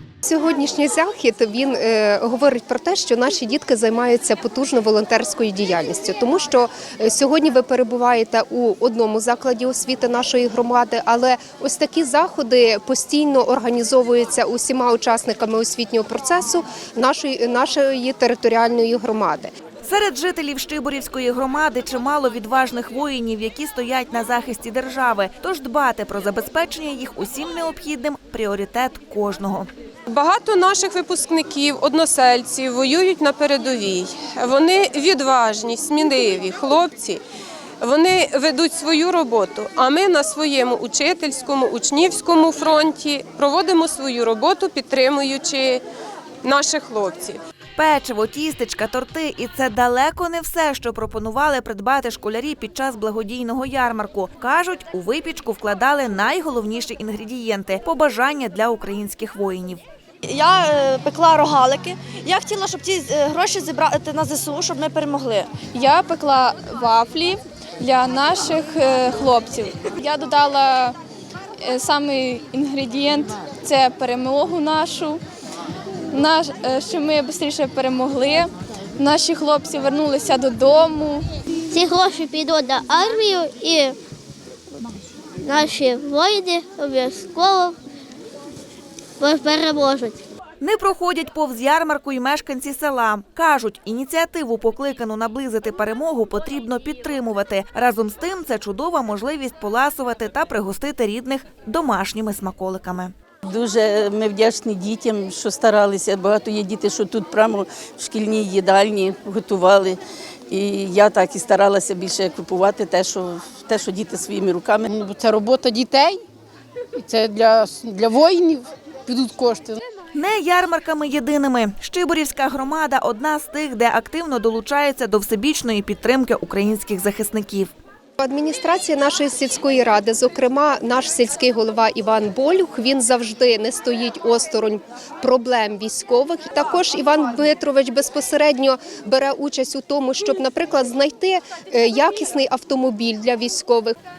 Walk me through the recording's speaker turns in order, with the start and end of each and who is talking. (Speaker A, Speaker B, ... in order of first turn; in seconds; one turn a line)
Speaker A: 0.2-19.5
Speaker B: 19.8-29.7
Speaker C: 30.1-37.2
Speaker C: 37.8-45.8
Speaker C: 46.4-47.4
Speaker B: 47.8-59.8
Speaker D: 60.2-65.5
Speaker E: 65.7-71.0
Speaker E: 71.6-75.2
Speaker E: 76.1-81.2
Speaker F: 81.7-84.0
Speaker F: 85.4-87.8
Speaker F: 89.2-90.2
Speaker B: 90.6-103.1
Speaker G: 103.5-110.0
Speaker G: 110.5-114.9
Speaker H: 114.9-116.2
Speaker H: 117.0-119.8
Speaker B: 120.1-127.7
Speaker A: 128.2-143.9